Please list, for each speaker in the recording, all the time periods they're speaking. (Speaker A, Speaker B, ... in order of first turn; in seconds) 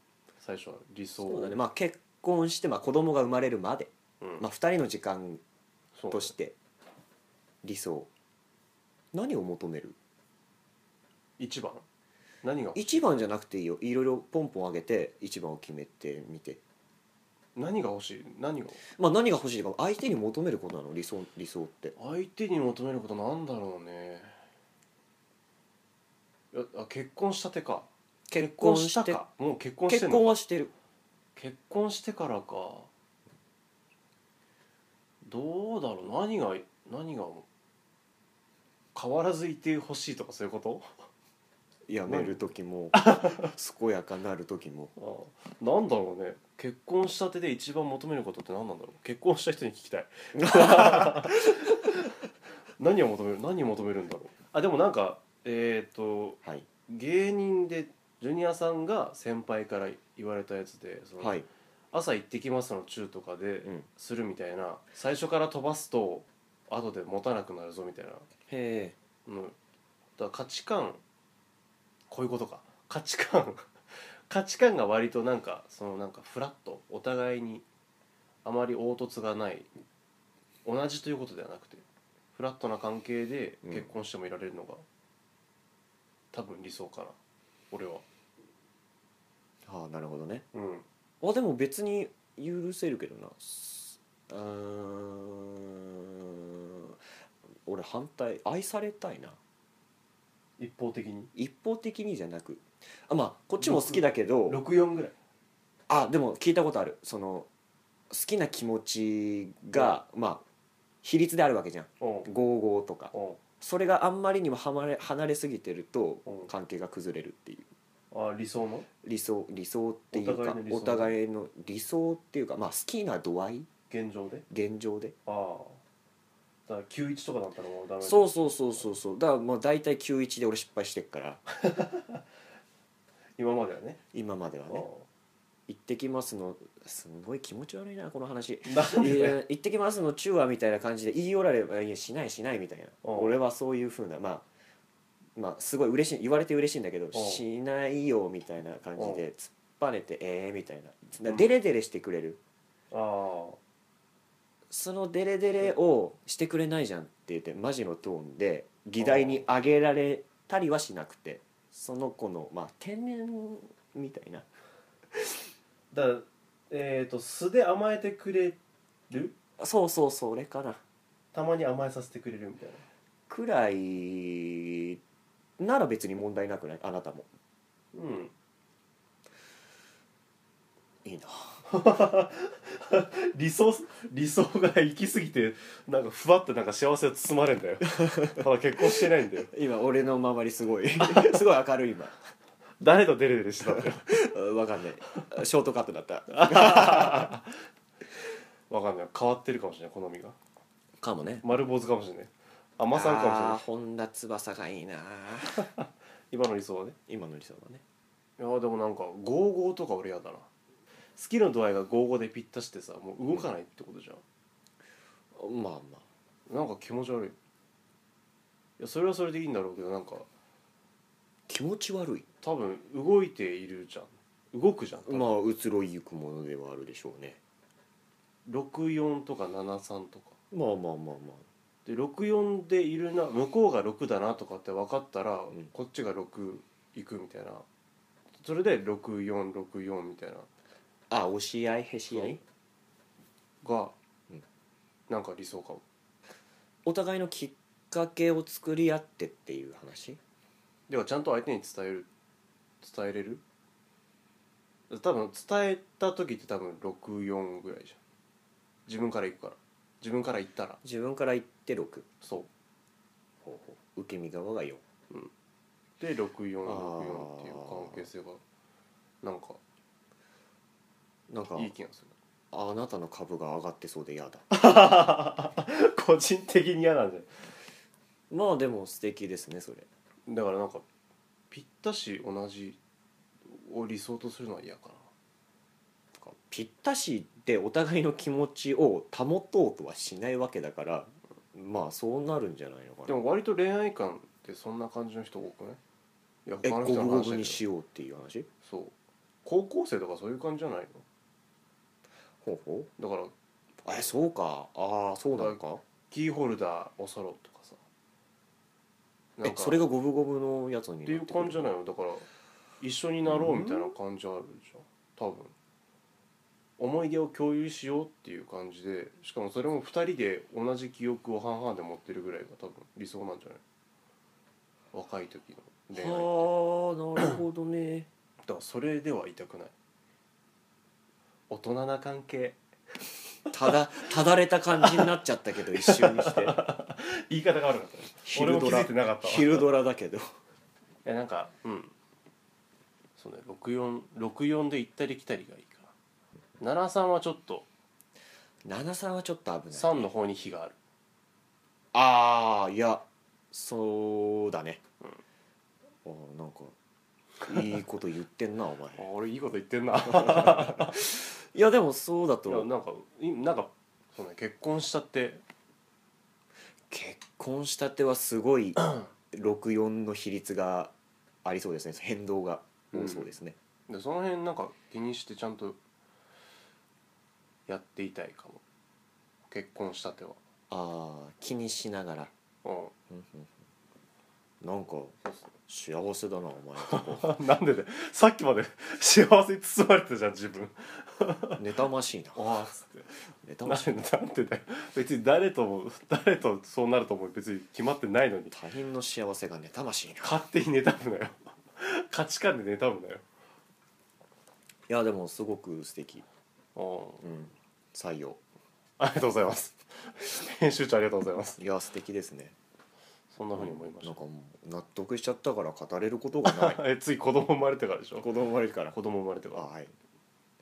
Speaker A: 0.4-1.6, 4.2-4.5, 6.0-6.3, 11.4-11.8, 12.4-13.0, 17.6-18.8, 21.9-24.3, 26.5-30.4, 31.4-32.9, 35.2-37.5, 38.9-40.9, 42.1-42.4, 42.9-43.5, 45.0-52.1, 52.8-61.4, 61.9-68.2, 69.2-69.5, 70.2-71.0, 72.1-77.7, 78.4-79.7, 80.6-84.8, 86.3-87.2, 87.7-88.0, 90.5-90.8, 100.6-101.3, 103.6-105.1, 109.7-110.0, 112.0-112.3, 113.1-113.4, 118.1-118.9, 120.1-121.1, 123.9-124.4, 125.2-125.8, 126.7-128.3, 131.6-132.2, 133.4-134.0, 134.7-135.1, 138.6-139.4, 143.0-143.3, 147.1-147.4, 149.0-149.2, 152.9-153.6, 159.0-159.4, 165.9-168.6, 169.1-169.3, 171.3-172.8, 177.9-178.3, 181.7-189.5, 191.0-191.3, 192.8-194.2, 196.3-197.5, 198.7-200.4, 201.4-203.6, 205.6-206.9, 208.4-210.5, 211.2-214.2, 216.5-217.3, 218.8-220.3, 222.4-225.4, 228.4-230.3, 231.8-237.6, 238.4-240.5, 242.1-242.4, 243.6-243.9, 245.1-245.8, 250.9-252.1, 252.8-253.4, 254.9-258.0, 258.9-260.8, 262.2-262.5, 266.0-268.4, 269.2-269.6, 271.5-272.1, 274.5-277.3, 280.3-280.8, 281.5-282.8, 283.4-285.1, 293.1-295.8, 296.4-297.6, 298.6-301.0, 303.0-303.3, 305.4-307.8, 309.4-309.8, 311.0-312.3, 312.8-315.5, 316.8-323.6, 324.9-326.5, 328.4-329.7, 331.5-332.6, 334.8-335.1, 335.7-339.6, 341.0-341.9, 343.2-345.9, 346.6-347.6, 349.7-350.8, 359.0-361.1, 362.4-365.4, 372.9-373.3, 373.9-375.8, 377.7-378.6, 379.5-380.4, 382.6-382.9, 386.8-391.6, 392.3-393.1, 393.6-398.5, 400.2-403.2, 406.8-407.3, 409.0-411.6, 413.3-414.2, 416.4-418.3, 418.9-419.6
Speaker B: 1.2-5.4, 6.1-6.5, 7.6-8.1, 9.1-9.9, 12.7-16.6, 18.9-21.9, 28.3-29.3, 29.9-30.7, 41.9-44.9, 50.4-51.6, 61.2-61.5, 68.5-69.0, 83.6-83.9, 89.6-90.4, 91.2-97.0, 97.7-99.4, 101.3-104.6, 105.9-107.5, 108.1-110.4, 111.0-117.7, 119.0-123.7, 124.5-125.1, 128.0-131.4, 134.1-134.9, 135.7-144.4, 145.3-152.4, 154.7-164.4, 169.6-170.8, 173.3-175.0, 175.6-177.3, 181.0-181.6, 188.0-188.4, 189.5-192.2, 193.7-197.3, 201.0-201.4, 202.9-205.6, 207.1-207.8, 215.3-216.0, 221.5-222.2, 225.1-227.4, 230.5-231.4, 241.1-242.4, 246.8-250.2, 260.8-262.1, 263.4-264.8, 266.6-268.1, 271.3-271.7, 272.5-274.5, 278.3-279.9, 286.2-293.2, 296.6-298.5, 302.4-302.9, 303.8-305.8, 309.4-311.7, 313.2-313.9, 325.9-328.1, 333.5-336.6, 338.2-340.2, 348.6-350.1, 351.9-354.8, 356.0-356.7, 357.4-359.1, 360.1-362.7, 366.9-373.6, 380.7-382.3, 383.1-383.5, 384.6-387.4, 391.6-392.4, 393.4-393.9, 398.5-400.4, 404.9-406.2, 407.2-408.4, 411.6-412.6, 413.5-416.8, 418.2-419.0, 419.5-419.9